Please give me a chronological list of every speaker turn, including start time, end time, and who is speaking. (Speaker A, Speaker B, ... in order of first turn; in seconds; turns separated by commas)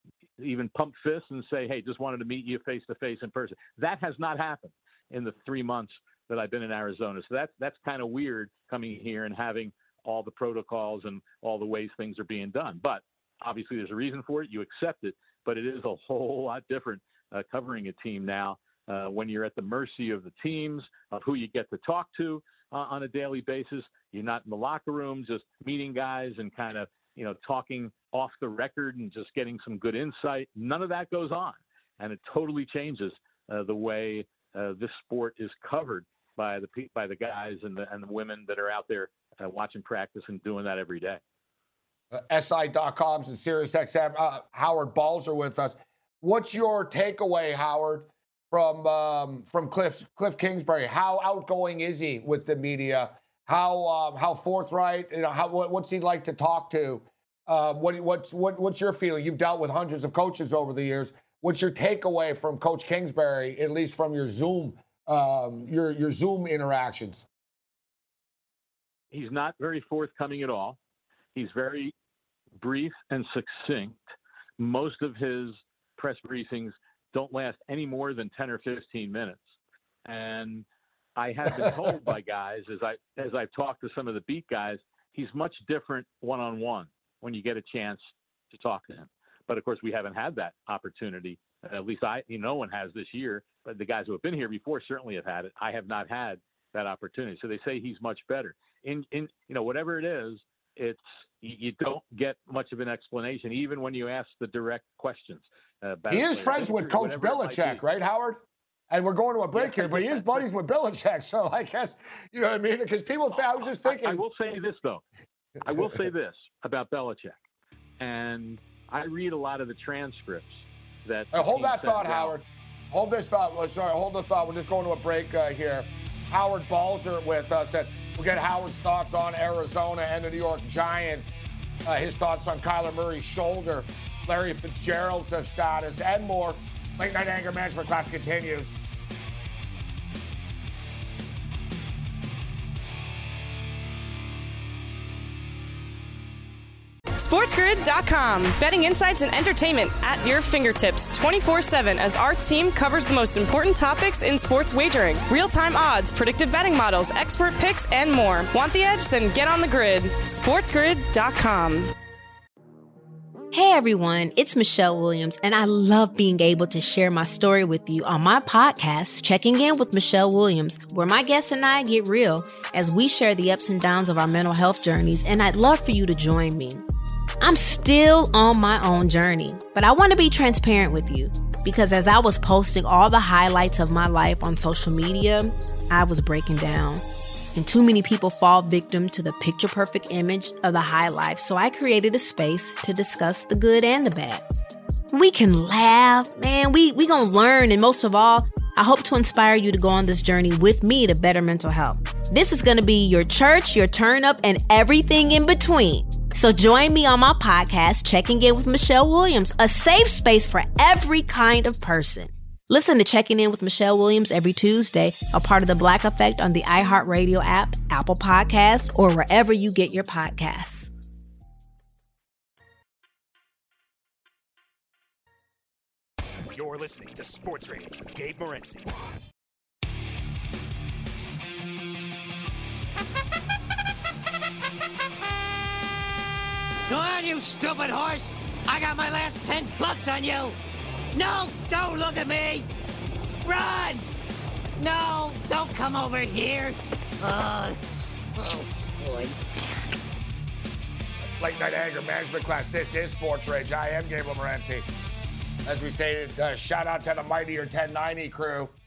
Speaker A: 0.4-41.2, Speaker B: 42.1-67.3, Speaker A: 69.1-70.8, Speaker A: 71.3-71.9, Speaker A: 72.6-74.0, Speaker A: 74.6-79.5, Speaker A: 80.0-107.8, Speaker B: 81.5-81.9, Speaker B: 106.1-114.2, Speaker A: 109.5-110.5, Speaker A: 113.3-115.0, Speaker A: 115.6-117.4, Speaker A: 118.0-122.3, Speaker B: 121.3-138.8, Speaker C: 147.2-161.9, Speaker D: 163.5-176.8, Speaker D: 177.4-187.0, Speaker D: 187.5-194.4, Speaker D: 195.1-220.9, Speaker E: 226.5-228.9, Speaker F: 236.9-240.6, Speaker F: 241.1-242.7, Speaker F: 243.4-244.0, Speaker F: 244.8-249.4, Speaker B: 251.4-254.9, Speaker B: 255.7-258.7